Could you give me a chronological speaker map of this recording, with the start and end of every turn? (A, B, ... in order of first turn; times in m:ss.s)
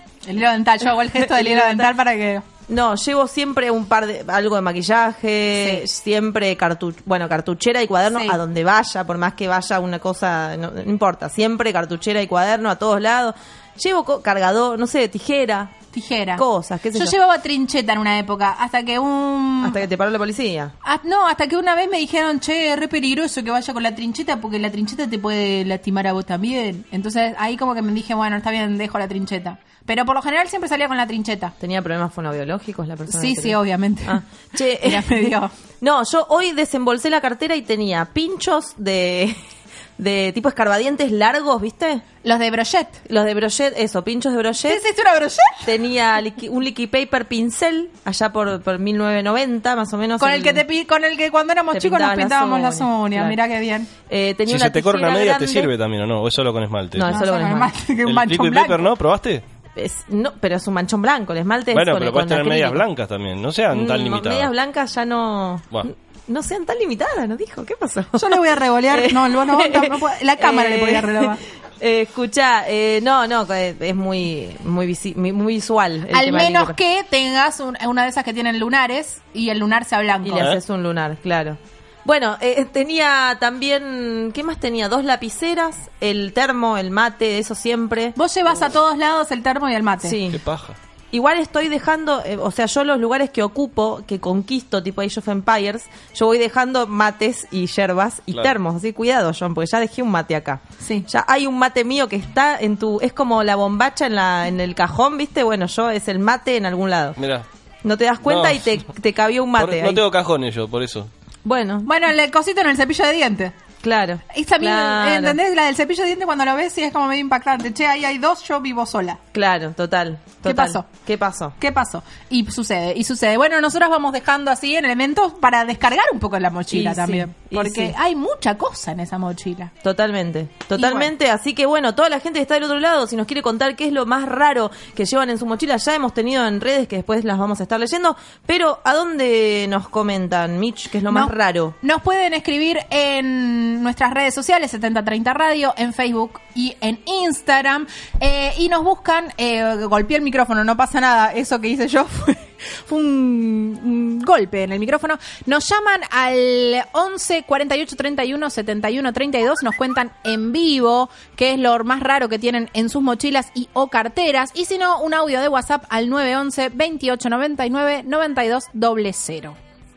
0:00.2-0:02.4 A
0:01.1-0:01.9 B
0:02.7-0:15.7 B
0:05.5-0:05.8 A
0:08.1-0:08.4 A
0:15.9-0:19.8 A
0:16.4-0:17.1 B
0:19.6-0:20.7 B
0:20.8-0:31.5 A
0:31.6-0:39.3 B
0:33.1-0:34.2 A
0:34.8-0:35.5 A
0:40.0-0:42.0 B
0:42.2-0:43.0 A
0:43.0-0:44.8 B
0:44.7-0:45.7 A
0:45.6-0:50.6 B
0:50.2-0:53.9 A
0:51.7-0:53.4 B
0:54.1-0:55.7 B
0:54.5-0:57.2 C
0:56.9-0:57.7 B
0:57.1-0:58.9 A
0:58.0-0:59.4 C
0:59.8-1:02.8 B
1:01.7-1:04.5 C
1:03.7-1:16.8 B
1:08.1-1:11.4 A
1:16.1-1:20.5 A
1:20.2-1:28.2 B
1:20.3-1:20.6 C
1:28.2-1:30.2 A
1:30.0-1:30.4 B
1:30.3-1:30.8 C
1:31.1-1:47.2 B
1:40.8-1:41.1 A
1:47.2-1:47.4 C
1:47.8-1:50.0 B
1:48.2-1:48.7 C
1:49.6-1:51.1 C
1:51.4-1:51.9 B
1:51.8-1:53.5 A
1:53.8-1:55.4 B
1:54.3-1:59.2 A
1:59.3-2:01.6 B
2:00.4-2:00.8 A
2:01.6-2:09.7 A
2:06.7-2:07.9 B
2:09.8-2:21.8 B
2:10.8-2:11.1 A
2:21.1-2:49.6 A